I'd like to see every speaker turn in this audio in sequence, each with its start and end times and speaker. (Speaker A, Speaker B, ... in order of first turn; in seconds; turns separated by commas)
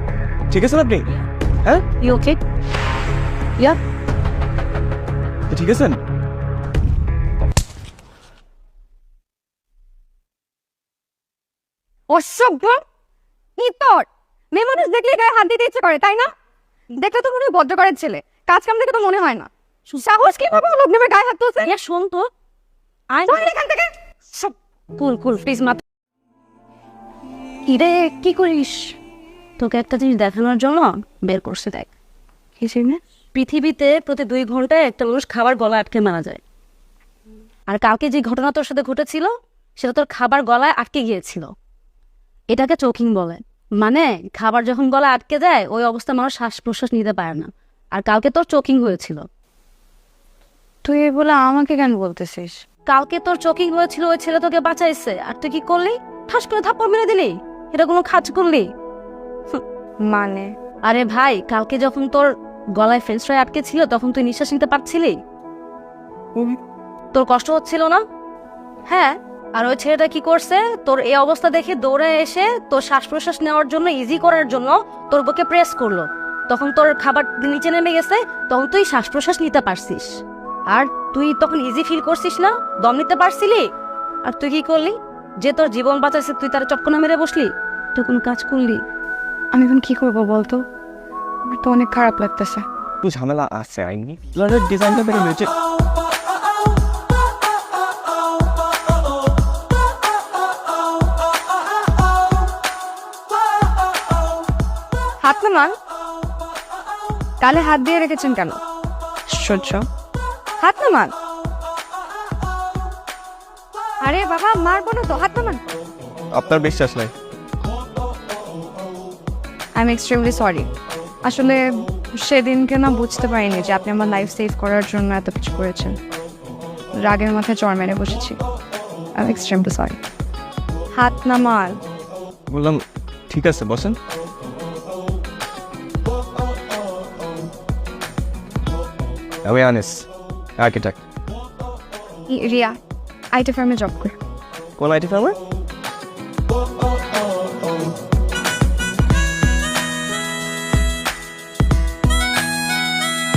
Speaker A: 0.5-1.1, Speaker B: 2.0-2.4, Speaker A: 5.5-6.0, Speaker C: 12.1-12.8, Speaker C: 13.6-16.3, Speaker C: 17.0-21.7, Speaker B: 21.6-22.2, Speaker C: 23.3-24.5, Speaker B: 25.0-25.8, Speaker B: 27.7-28.8, Speaker B: 29.6-31.9, Speaker C: 32.6-33.0, Speaker B: 33.3-36.4, Speaker B: 37.7-41.5, Speaker B: 42.5-49.2, Speaker C: 50.8-52.6, Speaker B: 52.9-58.7, Speaker C: 60.0-60.5, Speaker B: 60.9-65.2, Speaker B: 67.1-68.0, Speaker B: 68.9-80.1, Speaker B: 80.7-83.7, Speaker B: 84.2-88.8, Speaker C: 89.5-90.6, Speaker C: 91.5-92.6, Speaker A: 93.0-95.5, Speaker C: 105.2-105.7, Speaker C: 107.4-108.6, Speaker C: 109.3-109.8, Speaker C: 110.6-111.1, Speaker C: 114.0-115.6, Speaker A: 116.3-117.1, Speaker C: 119.8-120.7, Speaker C: 121.2-126.0, Speaker C: 127.0-128.4, Speaker C: 129.2-130.0, Speaker C: 130.9-131.8, Speaker A: 132.5-134.0, Speaker A: 139.4-141.0, Speaker C: 142.3-142.8, Speaker C: 143.3-144.1, Speaker A: 144.8-145.4